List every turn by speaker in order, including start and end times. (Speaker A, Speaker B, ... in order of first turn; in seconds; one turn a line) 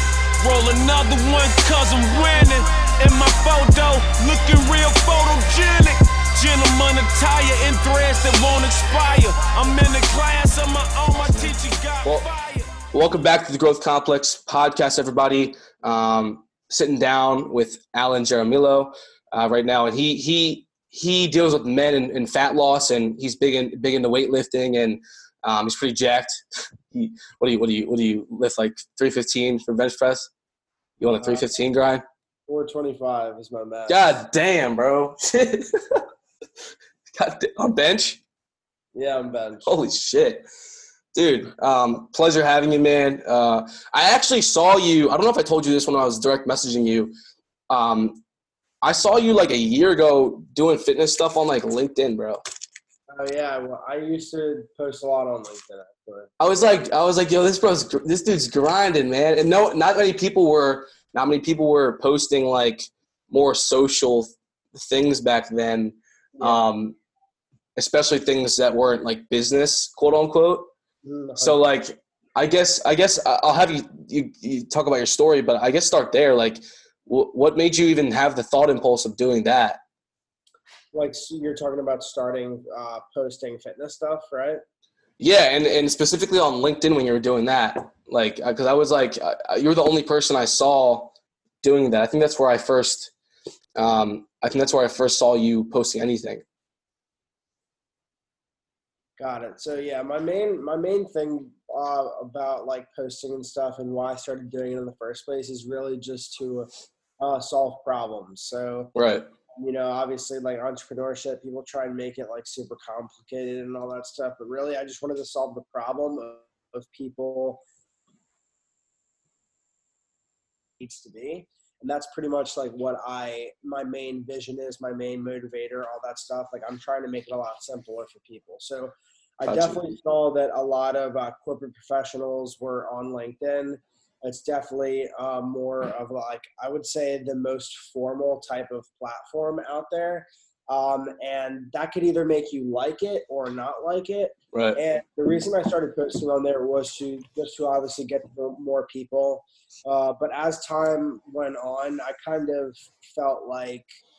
Speaker A: 0.4-12.7
Speaker B: 11.1-12.3
Speaker B: 12.9-30.3
Speaker B: 31.0-32.0
Speaker C: 31.1-31.5
Speaker C: 32.5-34.0
Speaker B: 33.9-36.0
Speaker B: 37.1-38.2
Speaker C: 39.0-39.7
Speaker B: 39.7-40.5
Speaker B: 41.1-47.1
Speaker B: 47.7-48.2
Speaker B: 48.8-52.4
Speaker C: 53.1-56.3
Speaker B: 56.4-67.0
Speaker C: 66.4-66.6
Speaker B: 67.8-70.7
Speaker C: 71.0-71.6
Speaker B: 71.4-79.8
Speaker C: 80.9-84.6
Speaker B: 85.2-93.1
Speaker B: 93.8-96.4
Speaker C: 99.2-106.7
Speaker C: 107.2-108.9
Speaker B: 109.0-109.3
Speaker C: 109.6-117.6
Speaker C: 120.8-153.9
Speaker B: 129.5-129.8
Speaker B: 144.5-144.8